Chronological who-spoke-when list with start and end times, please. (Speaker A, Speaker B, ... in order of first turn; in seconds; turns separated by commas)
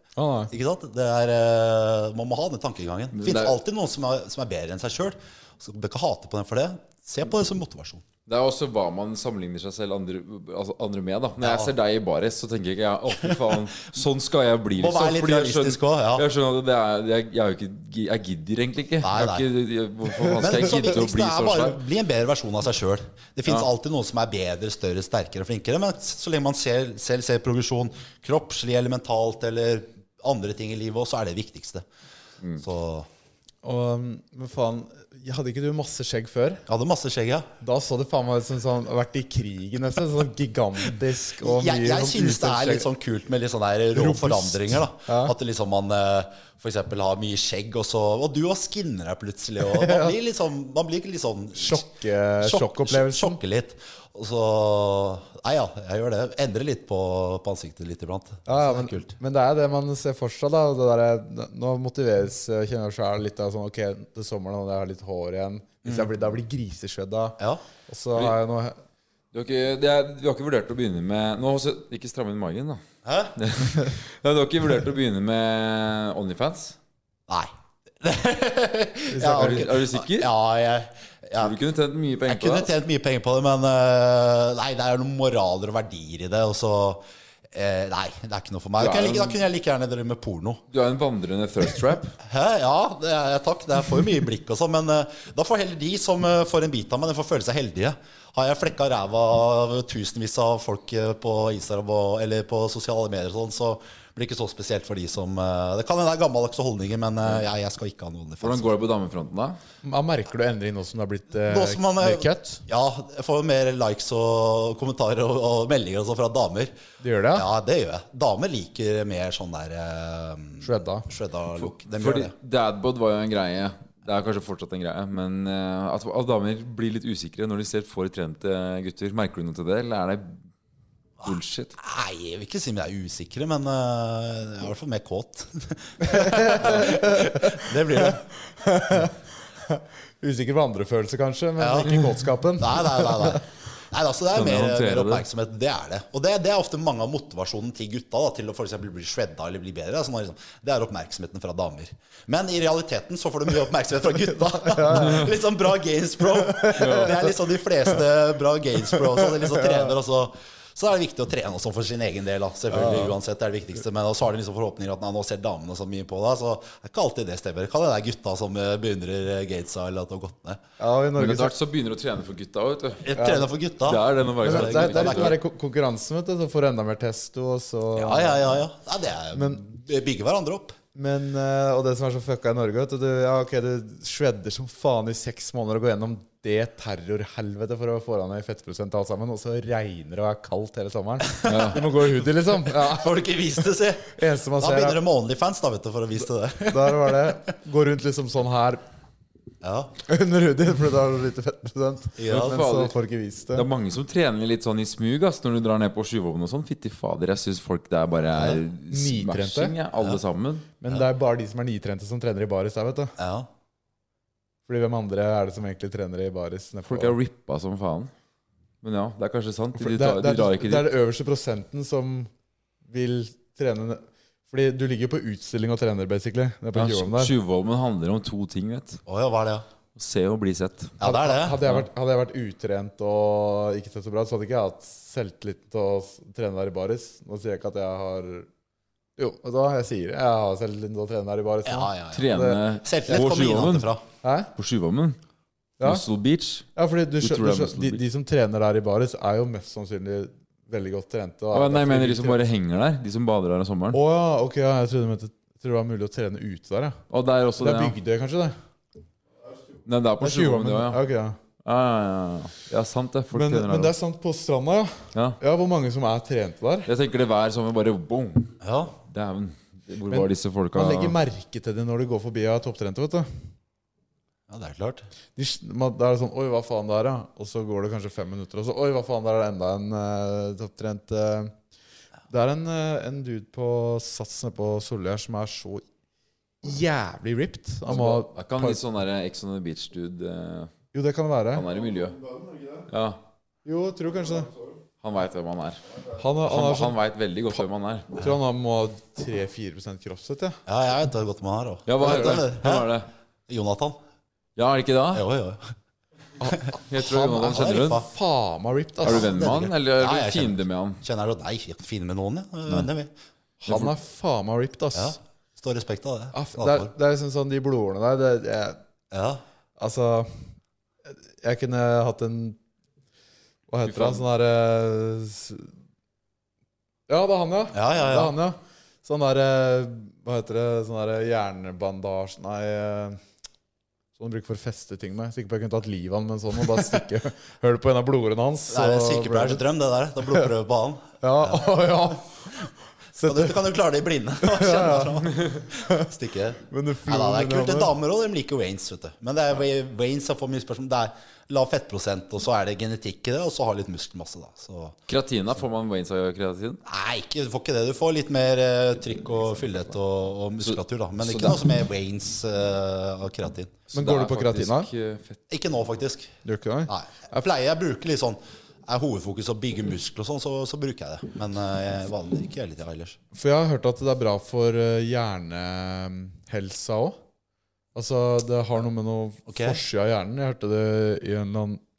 Speaker A: 0.2-0.5, Speaker B: 0.5-8.0, Speaker C: 3.1-3.6, Speaker C: 8.3-21.8, Speaker B: 11.4-11.7, Speaker B: 13.2-13.5, Speaker B: 14.8-16.3, Speaker B: 19.0-19.5, Speaker B: 20.4-31.9, Speaker B: 32.6-33.1, Speaker A: 33.6-36.6, Speaker B: 36.7-37.5, Speaker A: 37.6-42.9, Speaker B: 41.4-51.9, Speaker A: 44.0-45.3, Speaker A: 49.6-50.2, Speaker A: 51.5-53.4, Speaker B: 52.4-59.1, Speaker A: 58.5-68.8, Speaker B: 65.8-66.1, Speaker C: 69.3-72.8, Speaker B: 73.0-73.4, Speaker C: 73.4-76.8, Speaker B: 77.3-81.6, Speaker A: 79.1-79.7, Speaker C: 79.3-80.3, Speaker C: 81.4-82.7, Speaker B: 82.3-90.6, Speaker C: 88.8-89.4, Speaker C: 90.7-92.2, Speaker B: 92.2-108.7, Speaker C: 108.4-109.6, Speaker A: 109.8-112.7, Speaker B: 111.5-116.8, Speaker A: 117.0-117.5, Speaker B: 117.3-122.3, Speaker A: 120.6-121.1, Speaker C: 121.6-130.4, Speaker C: 131.2-131.7, Speaker B: 131.2-138.2, Speaker A: 136.0-139.1, Speaker A: 139.7-143.4, Speaker B: 141.6-142.0, Speaker B: 142.6-170.6, Speaker C: 144.3-145.2, Speaker A: 154.7-155.3, Speaker A: 156.4-157.3, Speaker C: 156.8-157.1, Speaker A: 159.0-159.9, Speaker A: 162.7-163.1, Speaker A: 170.8-171.5, Speaker C: 171.2-173.1, Speaker B: 173.0-175.4, Speaker A: 173.2-173.5, Speaker C: 173.8-175.4, Speaker A: 174.4-178.6, Speaker B: 178.0-180.8, Speaker A: 179.3-179.8, Speaker A: 180.9-193.3, Speaker B: 191.3-197.4, Speaker C: 191.5-191.8, Speaker A: 194.1-195.0, Speaker A: 196.7-198.8, Speaker B: 199.6-199.9, Speaker A: 200.1-203.7, Speaker B: 202.2-202.5, Speaker C: 202.3-202.9, Speaker C: 203.6-210.7, Speaker A: 208.4-209.8, Speaker A: 210.8-213.2, Speaker B: 213.2-213.5, Speaker A: 214.7-217.2, Speaker C: 216.9-218.1, Speaker C: 218.8-220.9, Speaker A: 219.8-222.3, Speaker A: 222.9-227.3, Speaker C: 226.8-229.0, Speaker B: 229.1-229.7, Speaker C: 230.0-231.0, Speaker B: 231.0-231.6, Speaker A: 231.0-238.5, Speaker A: 239.2-242.6, Speaker B: 241.7-244.0, Speaker C: 242.1-243.9, Speaker A: 244.2-244.5, Speaker C: 244.6-245.2, Speaker C: 245.8-246.7, Speaker A: 246.8-252.4, Speaker C: 247.2-248.0, Speaker C: 251.5-254.0, Speaker A: 253.9-257.0, Speaker C: 257.1-258.0, Speaker A: 257.6-258.6, Speaker C: 259.9-261.0, Speaker A: 260.2-261.4, Speaker C: 261.6-263.9, Speaker A: 263.3-266.9, Speaker C: 266.9-268.6, Speaker B: 268.6-269.0, Speaker C: 269.1-271.2, Speaker A: 270.1-273.3, Speaker B: 274.5-275.1, Speaker A: 275.4-281.5, Speaker A: 282.3-285.8, Speaker A: 286.6-288.8, Speaker C: 287.9-290.7, Speaker A: 290.9-291.6, Speaker C: 291.5-293.2, Speaker A: 293.6-294.5, Speaker C: 295.0-295.8, Speaker A: 296.2-296.9, Speaker C: 296.4-298.1, Speaker A: 298.2-300.6, Speaker B: 300.7-302.9, Speaker C: 301.9-303.1, Speaker B: 303.5-304.0, Speaker C: 304.6-305.3, Speaker B: 305.1-305.7, Speaker A: 306.4-309.4, Speaker C: 306.9-308.0, Speaker B: 307.5-308.1, Speaker C: 309.1-311.0, Speaker B: 309.1-313.1, Speaker A: 313.6-315.2, Speaker C: 313.7-313.9, Speaker B: 314.9-316.9, Speaker A: 316.3-318.8, Speaker B: 319.1-319.4, Speaker A: 319.8-320.5, Speaker A: 321.1-322.6, Speaker A: 323.7-325.7, Speaker C: 323.9-324.2, Speaker A: 327.1-333.2, Speaker B: 327.7-328.4, Speaker A: 334.2-339.6, Speaker B: 338.7-341.7, Speaker A: 341.2-342.4, Speaker A: 343.2-343.6, Speaker B: 343.2-355.0, Speaker A: 344.4-345.2, Speaker A: 345.8-346.1, Speaker A: 346.7-347.9, Speaker C: 355.1-356.8, Speaker B: 356.9-363.8, Speaker C: 360.6-361.6, Speaker C: 363.9-365.4, Speaker A: 363.9-364.9, Speaker B: 365.5-366.4, Speaker A: 366.4-366.9, Speaker B: 366.9-373.2, Speaker A: 373.3-377.2, Speaker A: 377.9-381.8, Speaker B: 379.5-379.8